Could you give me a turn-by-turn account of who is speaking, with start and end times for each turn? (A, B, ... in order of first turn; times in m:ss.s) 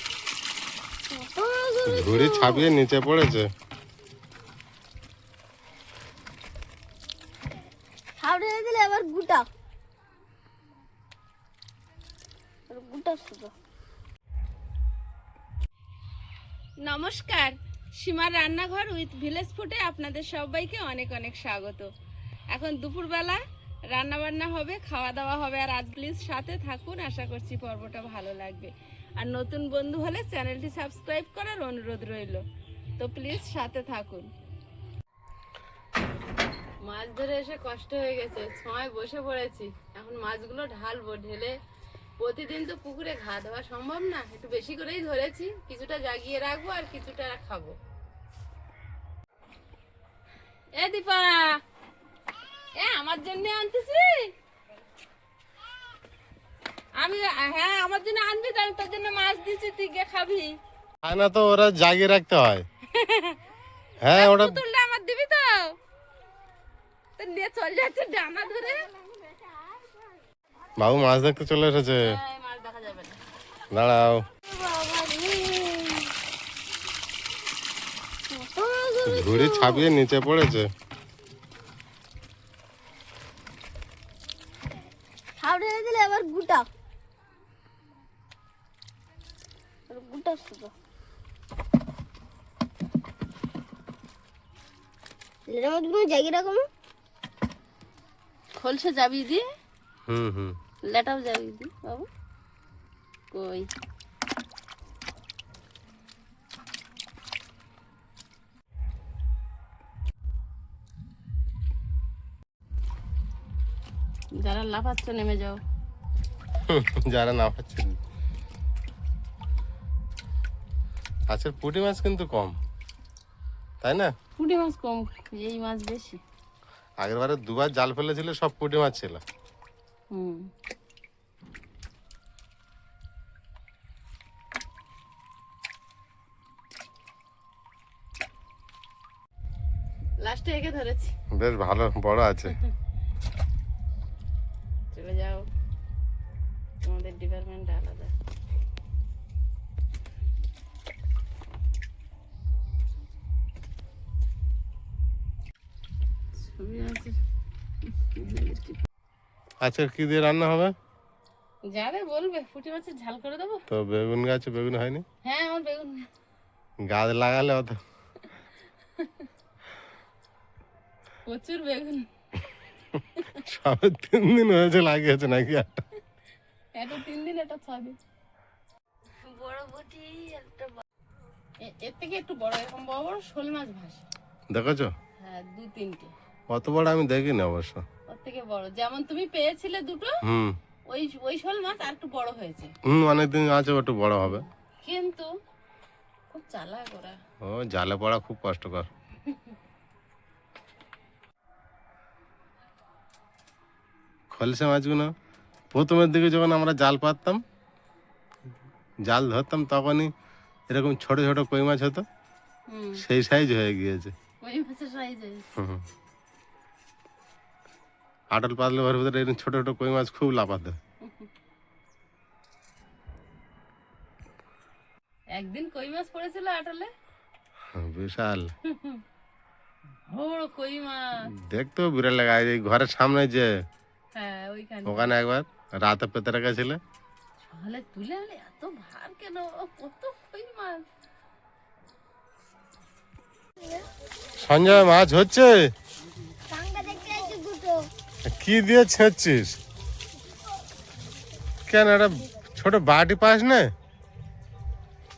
0:01.1-0:02.7 A
0:01.8-0:03.5 B
0:08.2-0:09.5 A
0:12.7-0:13.5 A
0:16.8-0:21.9 C
0:22.5-0:32.4 C
0:33.0-0:34.3 C
0:36.8-0:41.5 C
0:42.2-0:47.8 C
0:50.7-0:51.6 C
0:52.7-0:54.3 C
0:57.0-1:00.5 C
1:01.0-1:02.6 B
1:02.9-1:03.4 C
1:04.0-1:04.6 B
1:04.1-1:05.8 C
1:07.2-1:08.9 C
1:10.8-1:12.2 B
1:12.0-1:13.2 C
1:13.7-1:14.2 B
1:14.5-1:16.1 A
1:18.3-1:19.9 A
1:19.0-1:20.7 B
1:25.4-1:26.7 A
1:29.9-1:30.7 A
1:35.5-1:36.6 A
1:38.6-1:39.4 C
1:40.1-1:40.6 B
1:40.8-1:42.1 C
1:43.3-1:43.6 C
1:54.4-1:55.6 C
1:56.7-1:57.9 B
2:01.3-2:02.6 B
2:03.8-2:04.1 B
2:04.4-2:06.2 C
2:07.0-2:09.2 B
2:10.1-2:10.5 C
2:20.2-2:21.1 C
2:21.3-2:22.6 B
2:24.9-2:25.4 C
2:26.8-2:28.1 C
2:36.3-2:37.2 C
2:37.9-2:38.8 C
2:39.6-2:40.7 B
2:41.6-2:43.6 C
2:43.7-2:45.0 B
2:45.2-2:46.1 C
2:46.8-2:47.8 B
2:49.0-2:49.3 C
2:51.2-2:52.1 C
2:53.3-2:55.7 B
2:56.7-2:58.0 C
2:59.2-3:00.7 C
3:01.6-3:04.0 C
3:04.5-3:04.9 B
3:05.2-3:06.1 C
3:06.5-3:07.8 B
3:08.1-3:10.1 C
3:10.2-3:10.6 B
3:10.9-3:12.7 C
3:12.9-3:14.4 B
3:14.3-3:15.3 C
3:16.3-3:17.2 C
3:17.4-3:18.9 B
3:24.3-3:25.1 B
3:25.7-3:27.4 B
3:29.1-3:30.1 B
3:30.7-3:32.0 B
3:32.7-3:33.0 C
3:33.0-3:34.1 B
3:34.4-3:35.5 C
3:35.6-3:35.8 B
3:38.3-3:40.8 B
3:41.0-3:41.3 C
3:45.3-3:46.9 C
3:47.7-3:48.5 B
3:48.7-3:49.0 C
3:50.1-3:51.3 C
3:51.3-3:53.5 B
3:54.1-3:55.1 C
3:54.8-3:56.8 B
3:57.4-4:00.8 C
4:03.6-4:03.8 A
4:04.4-4:05.6 B
4:06.5-4:07.9 A
4:08.2-4:09.6 B
4:11.7-4:13.7 B